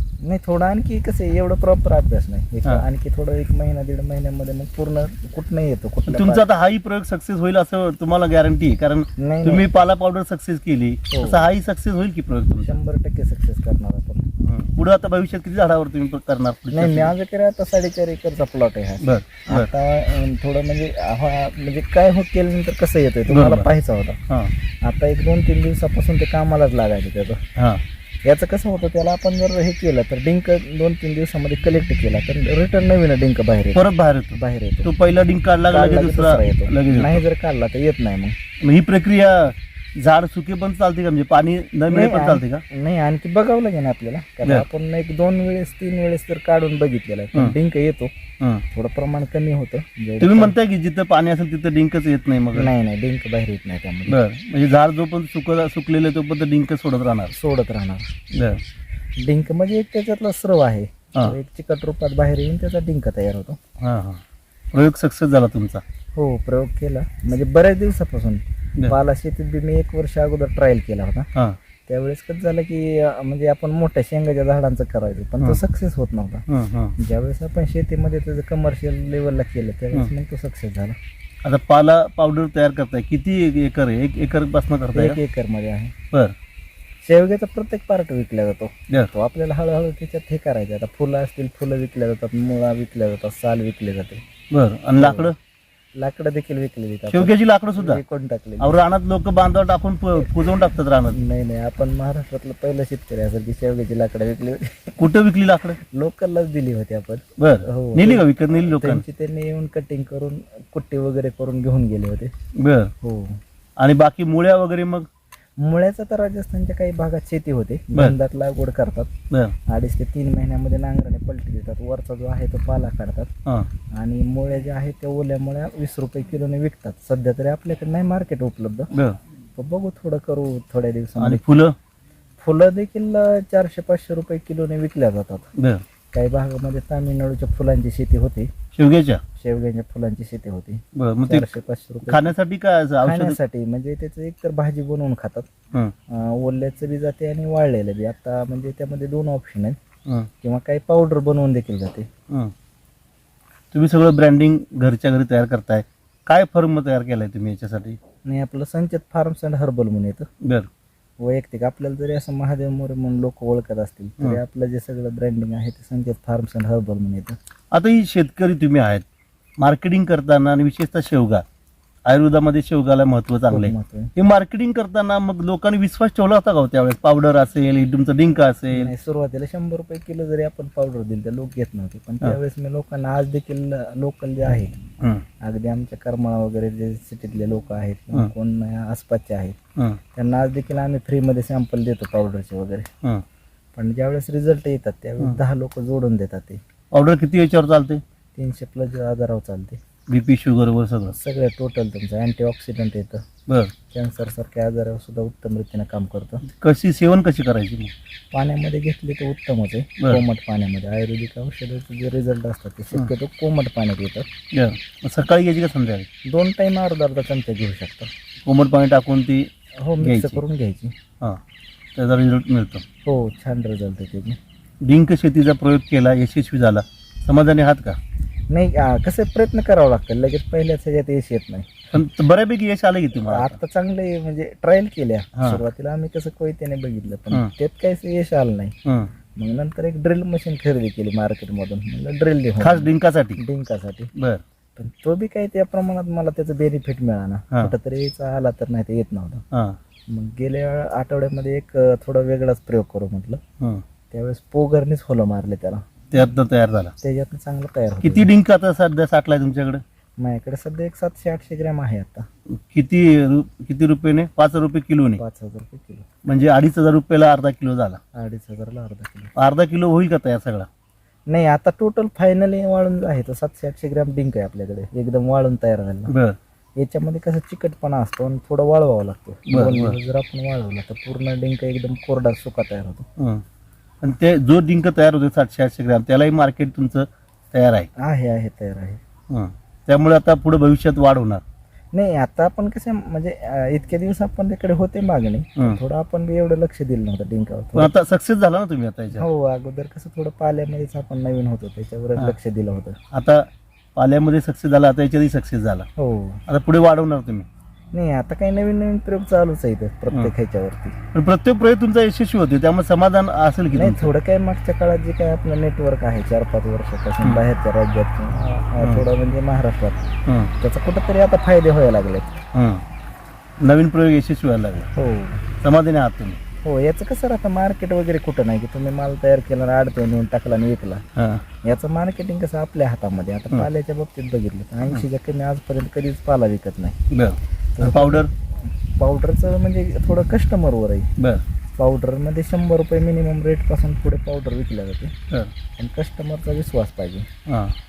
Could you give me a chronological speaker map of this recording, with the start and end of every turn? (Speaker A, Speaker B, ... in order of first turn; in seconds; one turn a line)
Speaker A: 0.2-6.4
Speaker B: 6.1-12.8
Speaker A: 9.2-9.6
Speaker A: 11.1-11.5
Speaker A: 12.6-14.3
Speaker B: 14.4-17.1
Speaker A: 16.7-24.2
Speaker B: 19.0-19.7
Speaker B: 23.3-23.7
Speaker A: 24.8-27.4
Speaker B: 27.6-27.8
Speaker A: 28.2-34.9
Speaker B: 33.7-37.2
Speaker A: 35.7-38.4
Speaker B: 38.6-42.6
Speaker A: 41.9-48.1
Speaker A: 48.7-50.5
Speaker B: 50.2-52.7
Speaker A: 52.5-54.2
Speaker B: 54.1-57.3
Speaker A: 57.3-58.1
Speaker B: 58.3-58.6
Speaker A: 59.2-63.6
Speaker B: 63.8-65.8
Speaker A: 66.1-71.3
Speaker A: 71.9-76.4
Speaker B: 76.5-76.9
Speaker A: 77.0-81.0
Speaker B: 81.4-85.2
Speaker A: 84.9-85.9
Speaker A: 87.0-94.2
Speaker B: 94.5-95.3
Speaker A: 95.0-95.3
Speaker A: 96.0-98.8
Speaker B: 97.1-98.0
Speaker B: 98.6-101.2
Speaker A: 101.1-105.0
Speaker B: 105.0-105.8
Speaker A: 105.9-112.3
Speaker B: 107.4-109.0
Speaker B: 112.6-112.9
Speaker A: 113.0-113.4
Speaker B: 113.8-115.1
Speaker A: 115.6-119.1
Speaker A: 119.7-123.3
Speaker A: 124.0-128.9
Speaker B: 128.9-129.2
Speaker A: 129.6-131.4
Speaker B: 131.2-131.7
Speaker A: 132.4-135.5
Speaker B: 135.6-135.8
Speaker A: 136.1-138.5
Speaker B: 138.7-139.2
Speaker A: 139.4-142.3
Speaker B: 140.9-141.5
Speaker B: 142.1-143.4
Speaker A: 143.0-145.5
Speaker A: 146.1-149.8
Speaker A: 150.4-152.1
Speaker B: 153.7-158.0
Speaker A: 158.2-160.3
Speaker A: 161.2-167.3
Speaker B: 167.7-169.0
Speaker B: 169.6-171.4
Speaker B: 172.1-178.9
Speaker A: 173.5-174.1
Speaker A: 178.7-184.8
Speaker A: 185.4-189.6
Speaker A: 190.1-192.9
Speaker A: 193.8-196.6
Speaker B: 196.9-198.0
Speaker A: 198.4-199.8
Speaker B: 200.1-201.2
Speaker A: 201.1-203.2
Speaker B: 203.5-203.7
Speaker A: 203.9-206.4
Speaker B: 206.5-207.9
Speaker A: 208.3-214.2
Speaker B: 214.5-216.1
Speaker A: 216.3-218.1
Speaker B: 218.4-219.5
Speaker A: 219.8-220.9
Speaker B: 220.0-220.4
Speaker B: 221.9-222.8
Speaker A: 223.1-224.4
Speaker B: 224.8-228.0
Speaker A: 228.5-231.7
Speaker B: 231.9-233.6
Speaker A: 233.1-238.7
Speaker B: 235.3-235.6
Speaker B: 238.8-239.1
Speaker A: 239.3-244.1
Speaker B: 242.6-243.4
Speaker B: 244.2-244.4
Speaker A: 244.8-249.4
Speaker B: 249.5-249.8
Speaker A: 250.1-253.4
Speaker A: 254.1-255.8
Speaker B: 256.1-256.9
Speaker A: 257.0-258.3
Speaker B: 258.0-259.8
Speaker A: 260.2-262.2
Speaker B: 262.7-265.2
Speaker A: 265.2-266.1
Speaker B: 266.2-268.0
Speaker A: 268.1-269.3
Speaker B: 269.4-270.7
Speaker A: 271.3-276.1
Speaker B: 276.1-276.4
Speaker A: 276.8-283.1
Speaker B: 279.5-279.9
Speaker B: 283.2-283.4
Speaker B: 284.0-287.9
Speaker A: 288.0-289.0
Speaker B: 289.3-291.4
Speaker A: 291.9-297.9
Speaker B: 297.8-299.2
Speaker A: 299.1-303.0
Speaker B: 303.1-305.9
Speaker A: 306.0-306.4
Speaker B: 306.5-307.5
Speaker A: 307.9-310.9
Speaker B: 311.1-314.1
Speaker A: 313.7-320.1
Speaker B: 320.2-320.5
Speaker A: 320.6-322.4
Speaker B: 322.5-322.8
Speaker B: 323.6-324.9
Speaker A: 324.9-325.4
Speaker B: 325.6-326.4
Speaker A: 326.6-331.0
Speaker B: 331.2-331.4
Speaker A: 331.6-337.0
Speaker B: 337.1-338.3
Speaker A: 337.8-338.3
Speaker A: 338.9-341.1
Speaker B: 341.2-341.4
Speaker A: 341.8-345.1
Speaker A: 345.8-347.3
Speaker B: 347.5-347.7